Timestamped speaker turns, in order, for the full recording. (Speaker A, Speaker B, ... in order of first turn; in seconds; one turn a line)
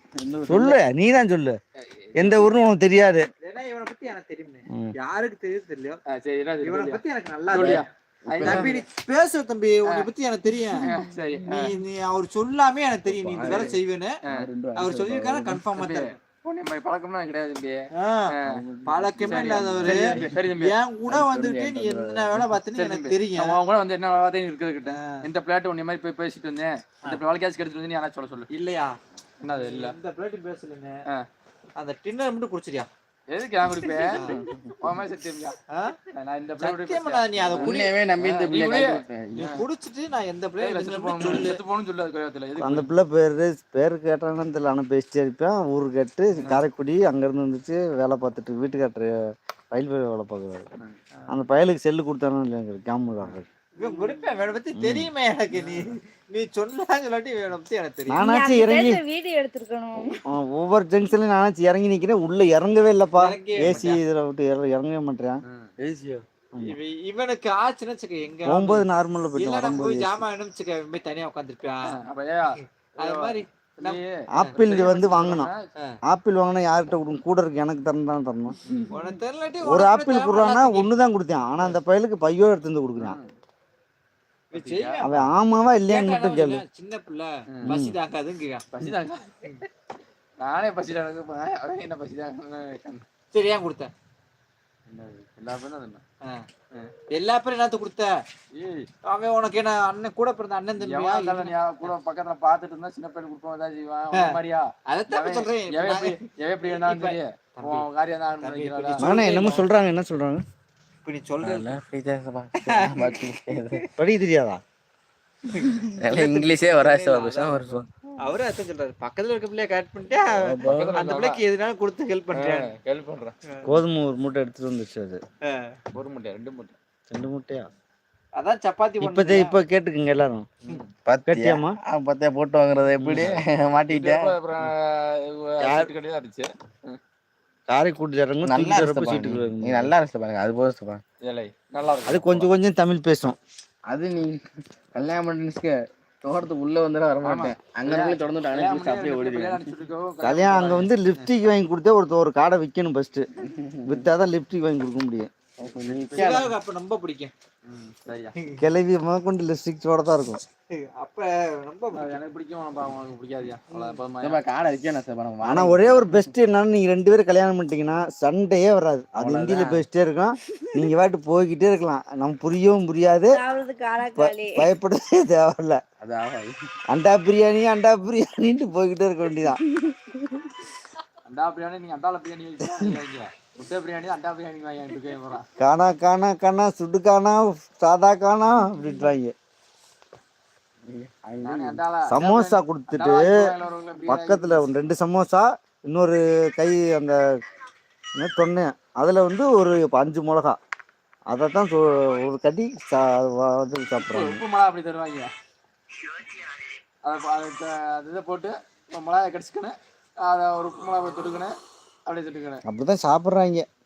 Speaker A: 0.2-0.8
Speaker B: 0.5-1.6
Speaker C: 1.8-2.5
Speaker B: 2.2-3.3
Speaker D: 3.4-6.0
Speaker C: 6.1-8.8
Speaker D: 6.6-7.8
Speaker A: 7.5-8.7
Speaker D: 8.3-10.9
Speaker C: 10.8-11.7
Speaker D: 11.4-14.2
Speaker A: 13.1-15.6
Speaker D: 14.8-16.1
Speaker C: 15.7-18.6
Speaker D: 17.9-18.3
Speaker A: 18.5-20.4
Speaker D: 18.8-23.6
Speaker C: 19.3-20.8
Speaker A: 21.1-22.5
Speaker C: 22.7-28.5
Speaker D: 24.9-25.3
Speaker D: 28.5-29.0
Speaker C: 29.4-30.0
Speaker D: 29.5-31.0
Speaker D: 31.8-32.9
Speaker C: 33.3-35.6
Speaker D: 34.1-34.5
Speaker D: 35.7-36.0
Speaker C: 36.1-39.6
Speaker D: 36.6-38.0
Speaker A: 37.5-39.5
Speaker D: 39.4-41.6
Speaker C: 40.6-42.9
Speaker B: 42.6-49.1
Speaker B: 49.7-50.7
Speaker B: 51.3-53.5
Speaker D: 53.8-58.2
Speaker E: 53.8-54.5
Speaker B: 54.8-55.1
Speaker C: 55.5-55.9
Speaker B: 58.1-59.0
Speaker E: 58.2-60.2
Speaker B: 60.0-65.4
Speaker D: 63.1-64.0
Speaker C: 65.5-65.7
Speaker A: 65.8-66.2
Speaker D: 66.6-68.9
Speaker B: 68.5-70.2
Speaker D: 69.4-72.0
Speaker C: 71.8-75.6
Speaker D: 73.0-74.6
Speaker B: 74.3-75.5
Speaker B: 76.1-78.6
Speaker C: 78.7-79.0
Speaker D: 78.9-80.9
Speaker B: 79.6-83.2
Speaker C: 83.0-83.3
Speaker D: 84.5-85.2
Speaker C: 84.5-85.0
Speaker B: 85.0-86.6
Speaker D: 85.9-88.7
Speaker B: 87.7-88.0
Speaker C: 88.7-89.7
Speaker C: 90.4-93.0
Speaker D: 93.3-93.9
Speaker C: 94.9-96.0
Speaker D: 97.1-98.1
Speaker C: 98.5-98.9
Speaker D: 99.0-101.5
Speaker C: 100.8-109.6
Speaker D: 104.2-106.2
Speaker D: 106.7-107.9
Speaker D: 108.4-109.6
Speaker B: 109.0-110.4
Speaker D: 111.0-111.8
Speaker A: 111.4-113.8
Speaker D: 112.6-113.9
Speaker B: 114.0-114.6
Speaker D: 115.5-122.7
Speaker A: 116.0-117.9
Speaker A: 120.4-121.0
Speaker C: 120.6-121.4
Speaker C: 122.3-123.3
Speaker D: 123.5-123.8
Speaker B: 123.7-125.2
Speaker D: 125.5-125.8
Speaker C: 125.9-126.8
Speaker B: 127.1-127.7
Speaker D: 128.3-129.6
Speaker B: 129.0-130.5
Speaker C: 130.6-130.9
Speaker A: 131.1-134.3
Speaker B: 131.3-131.8
Speaker B: 133.0-133.4
Speaker C: 133.9-137.0
Speaker B: 135.6-135.9
Speaker B: 137.7-139.9
Speaker A: 138.4-141.0
Speaker C: 141.2-142.5
Speaker B: 142.1-143.4
Speaker A: 143.9-144.4
Speaker A: 144.9-149.6
Speaker C: 147.2-150.9
Speaker B: 150.2-153.3
Speaker A: 153.6-154.1
Speaker B: 153.8-155.3
Speaker A: 155.6-156.5
Speaker C: 155.8-156.4
Speaker D: 156.1-157.3
Speaker C: 157.7-158.3
Speaker B: 158.6-160.4
Speaker D: 160.7-162.2
Speaker C: 161.9-164.4
Speaker D: 163.7-164.0
Speaker A: 164.2-166.3
Speaker B: 165.4-173.3
Speaker A: 169.1-169.8
Speaker E: 173.3-174.7
Speaker B: 174.0-175.8
Speaker A: 176.0-176.5
Speaker B: 176.9-179.6
Speaker E: 179.6-180.2
Speaker C: 181.3-185.4
Speaker B: 185.6-189.3
Speaker A: 190.8-191.8
Speaker C: 191.4-194.7
Speaker B: 192.1-193.3
Speaker B: 194.1-197.2
Speaker B: 198.2-200.6
Speaker B: 201.3-204.4
Speaker C: 204.0-205.3
Speaker C: 207.0-211.6
Speaker C: 212.1-212.6
Speaker B: 212.7-213.7